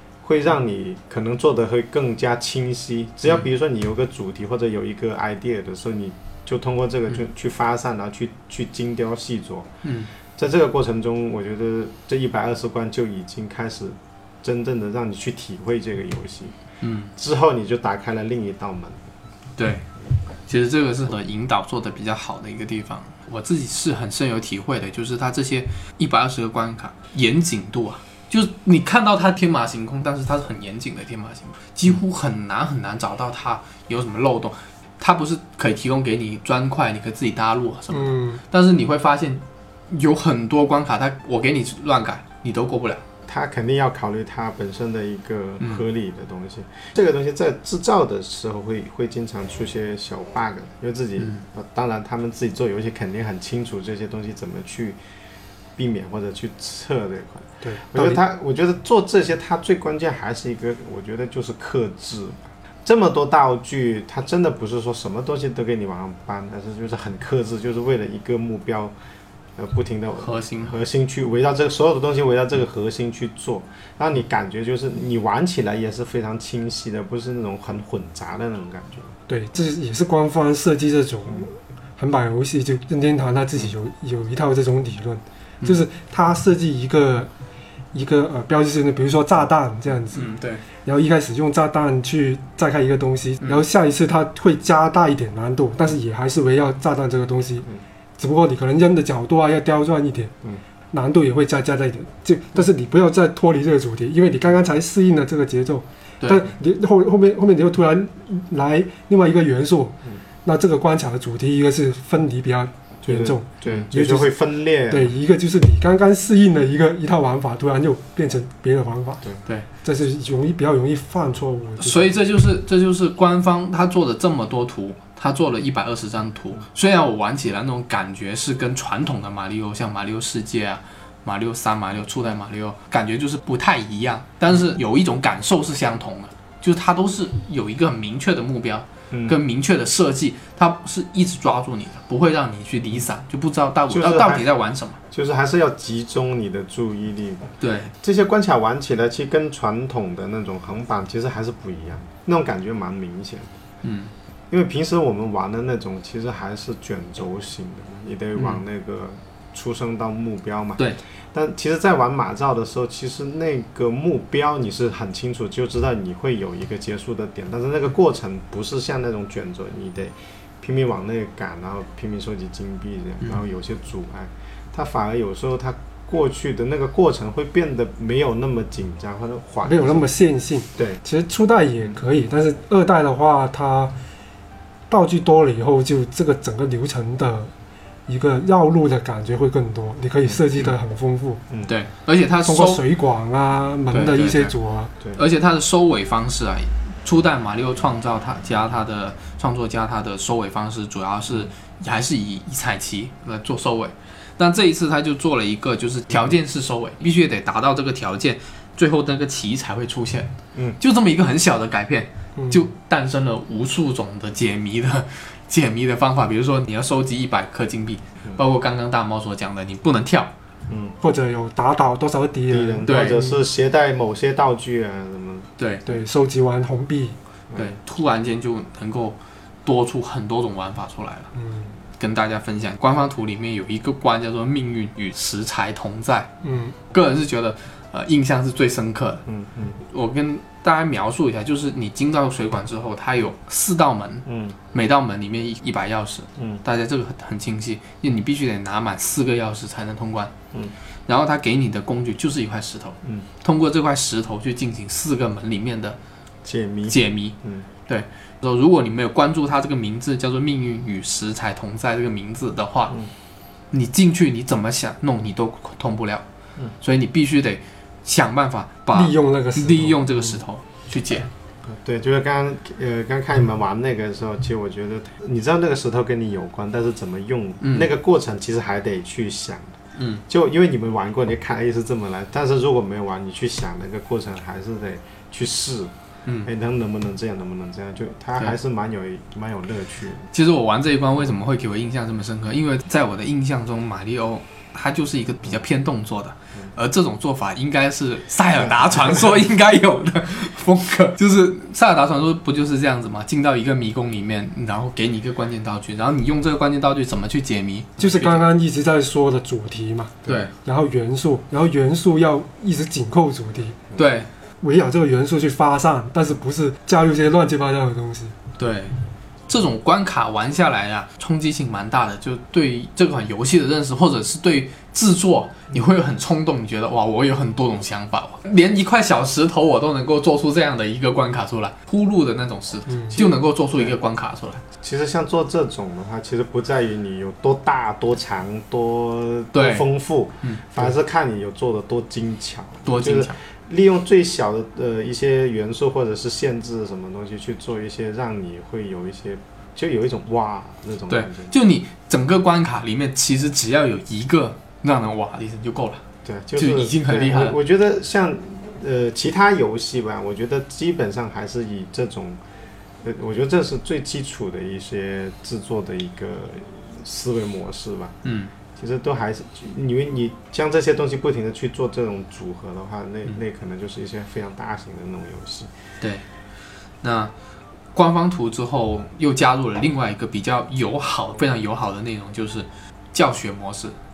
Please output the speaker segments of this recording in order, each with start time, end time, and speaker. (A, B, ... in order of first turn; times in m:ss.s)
0:00.2-0:09.7 A
0:09.8-0:10.1 B
0:10.4-0:16.5 A
0:16.8-0:17.1 B
0:17.2-0:19.0 A
0:19.6-0:19.8 B
0:20.5-0:43.0 B
0:37.9-0:38.4 C
0:43.3-0:55.0 A
0:55.8-1:08.9 A
0:57.6-0:58.2 C
1:09.6-1:19.1 A
1:10.2-1:10.7 B
1:19.3-1:27.3 C
1:27.9-1:30.3 C
1:30.1-1:30.6 B
1:30.8-1:37.7 C
1:38.2-1:40.3 C
1:40.9-1:54.3 C
1:46.2-1:46.4 B
1:53.0-1:55.1 A
1:54.9-1:59.2 C
1:59.8-2:02.1 C
2:01.8-2:25.0 B
2:19.1-2:19.4 A
2:23.9-2:24.5 A
2:25.1-2:27.5 A
2:27.6-2:27.9 B
2:28.0-2:33.5 A
2:33.8-2:34.1 B
2:34.5-3:00.1 A
2:38.4-2:38.6 B
2:59.6-3:03.9 C
3:00.7-3:01.0 A
3:04.9-3:07.5 C
3:08.1-3:11.4 C
3:11.7-3:12.8 B
3:12.4-3:14.9 C
3:13.9-3:14.5 B
3:15.1-3:40.3 B
3:32.4-3:32.7 C
3:40.7-3:41.0 A
3:41.0-3:43.4 C
3:42.5-3:45.5 A
3:42.9-3:43.2 B
3:45.6-3:45.8 B
3:45.9-3:47.2 C
3:47.6-3:51.3 B
3:51.4-3:51.7 C
3:52.0-3:56.3 B
3:56.4-3:56.7 C
3:56.9-3:59.2 B
3:59.3-3:59.8 A
3:59.9-4:10.3 B
4:04.2-4:04.6 A
4:11.1-4:16.0 B
4:16.4-4:17.7 A
4:16.9-4:17.4 B
4:17.9-4:22.9 B
4:23.7-4:26.2 B
4:26.8-4:31.3 B
4:28.9-4:30.0 C
4:31.6-4:39.7 A
4:37.6-4:37.9 B
4:40.0-4:40.2 B
4:40.3-4:45.9 A
4:46.4-4:50.3 A
4:50.3-5:08.4 B
4:58.6-4:59.2 A
5:08.0-5:13.8 C
5:10.2-5:10.5 B
5:14.0-5:14.3 B
5:14.6-5:18.4 C
5:18.6-5:19.0 B
5:19.5-5:34.6 B
5:32.9-5:33.2 C
5:33.1-5:33.9 A
5:34.8-5:51.5 A
5:39.5-5:39.9 B
5:40.4-5:40.8 B
5:42.9-5:43.4 B
5:51.1-5:56.0 B
5:56.2-6:02.4 A
5:56.6-5:57.6 B
6:03.0-6:08.2 A
6:08.2-6:08.5 B
6:08.8-6:15.7 A
6:17.0-6:17.3 B
6:17.9-6:23.9 B